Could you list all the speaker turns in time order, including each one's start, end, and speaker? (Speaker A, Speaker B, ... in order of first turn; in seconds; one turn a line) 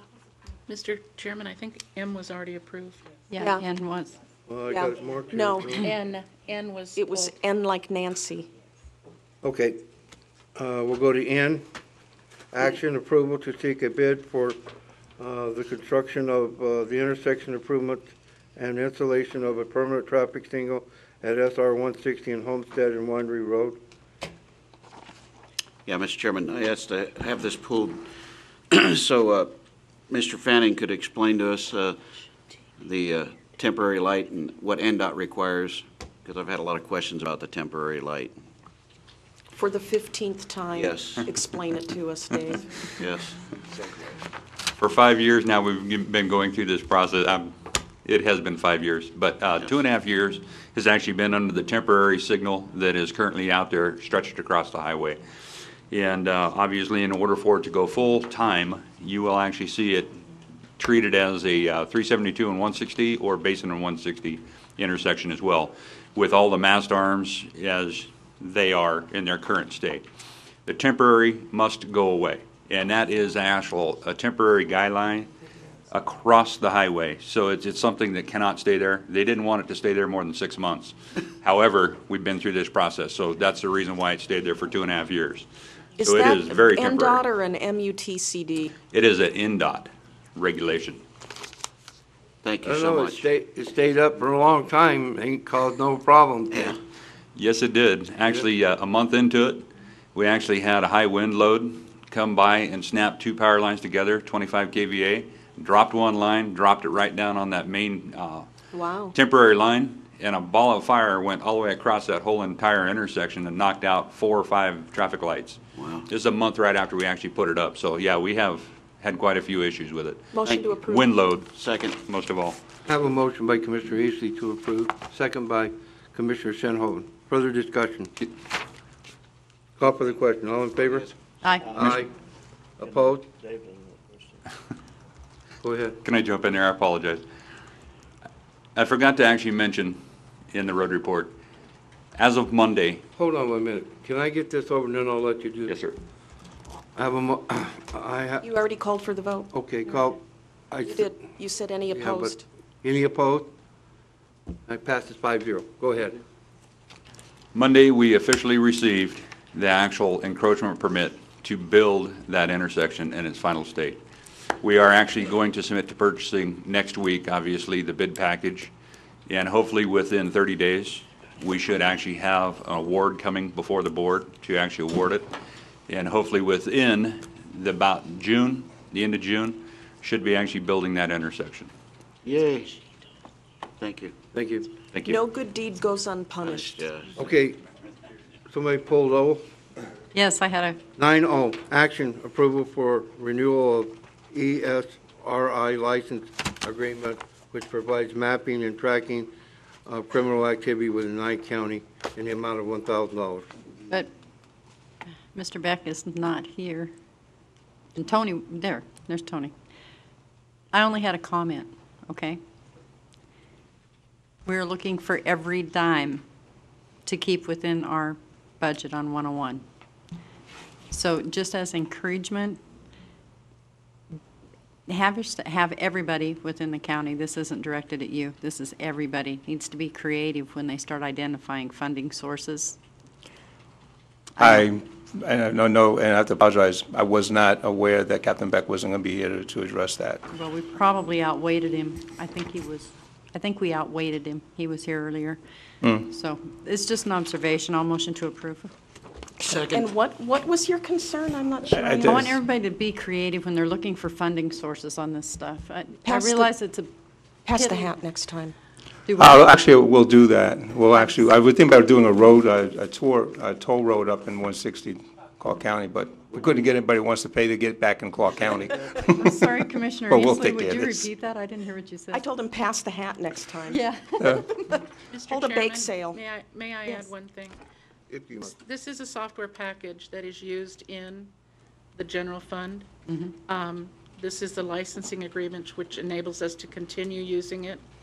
Speaker A: 0.7-3.0
Speaker B: 3.3-4.2
Speaker C: 3.4-3.6
Speaker D: 4.5-5.9
Speaker C: 4.7-5.8
Speaker A: 5.9-7.0
Speaker C: 7.0-8.5
Speaker D: 9.4-9.8
Speaker D: 10.6-11.7
Speaker D: 12.5-14.6
Speaker D: 15.2-23.8
Speaker E: 25.9-28.0
Speaker E: 28.7-29.6
Speaker E: 30.1-32.0
Speaker E: 32.8-38.4
Speaker C: 39.5-42.7
Speaker E: 40.7-41.3
Speaker E: 43.0-43.4
Speaker F: 44.8-55.2
Speaker F: 55.9-60.2
Speaker F: 60.8-70.0
Speaker F: 70.7-75.3
Speaker F: 75.9-85.5
Speaker C: 86.0-88.7
Speaker F: 86.0-87.2
Speaker F: 88.9-91.0
Speaker E: 92.4-93.3
Speaker D: 92.6-96.8
Speaker F: 97.4-108.5
Speaker C: 108.7-109.1
Speaker F: 109.1-122.6
Speaker E: 115.8-116.0
Speaker C: 120.3-121.1
Speaker E: 120.5-120.7
Speaker E: 121.5-122.0
Speaker D: 122.9-128.1
Speaker D: 129.8-131.1
Speaker B: 131.4-131.8
Speaker D: 131.7-132.1
Speaker D: 132.8-133.3
Speaker D: 135.6-136.0
Speaker F: 136.0-137.2
Speaker F: 138.8-140.0
Speaker F: 140.5-141.4
Speaker F: 142.2-143.0
Speaker D: 143.2-145.7
Speaker F: 145.7-146.0
Speaker D: 147.0-148.5
Speaker C: 148.4-149.5
Speaker D: 149.5-150.2
Speaker D: 150.7-151.1
Speaker C: 150.9-152.4
Speaker D: 151.9-153.5
Speaker D: 154.7-156.2
Speaker F: 157.5-164.0
Speaker F: 164.6-168.7
Speaker F: 169.3-175.3
Speaker F: 175.9-181.7
Speaker E: 182.2-182.8
Speaker E: 183.8-184.2
Speaker D: 184.3-184.7
Speaker F: 184.9-185.2
Speaker C: 185.1-186.8
Speaker E: 186.4-187.2
Speaker D: 187.2-187.6
Speaker D: 188.5-189.4
Speaker B: 190.1-190.8
Speaker D: 191.0-199.3
Speaker D: 199.9-203.5
Speaker B: 205.3-206.9
Speaker B: 207.9-209.5
Speaker B: 210.7-212.4
Speaker B: 214.5-216.2
Speaker B: 217.1-219.6
Speaker B: 220.9-222.6
Speaker B: 224.9-232.8
Speaker G: 234.4-240.2
Speaker B: 240.3-245.4
Speaker G: 245.8-246.1
Speaker B: 246.0-248.7
Speaker E: 249.4-249.9
Speaker C: 249.7-252.3
Speaker G: 251.7-252.4
Speaker B: 252.1-256.9
Speaker C: 256.1-256.5
Speaker C: 257.5-258.6
Speaker B: 257.5-258.0
Speaker B: 259.1-259.4
Speaker G: 259.2-269.3
Speaker B: 269.1-272.3
Speaker G: 270.1-271.1
Speaker C: 272.1-273.8
Speaker B: 273.7-274.6
Speaker C: 274.5-276.2
Speaker A: 275.1-277.6
Speaker D: 278.1-278.6
Speaker A: 278.6-281.3
Speaker A: 282.0-282.9
Speaker B: 283.1-283.4
Speaker A: 283.4-287.9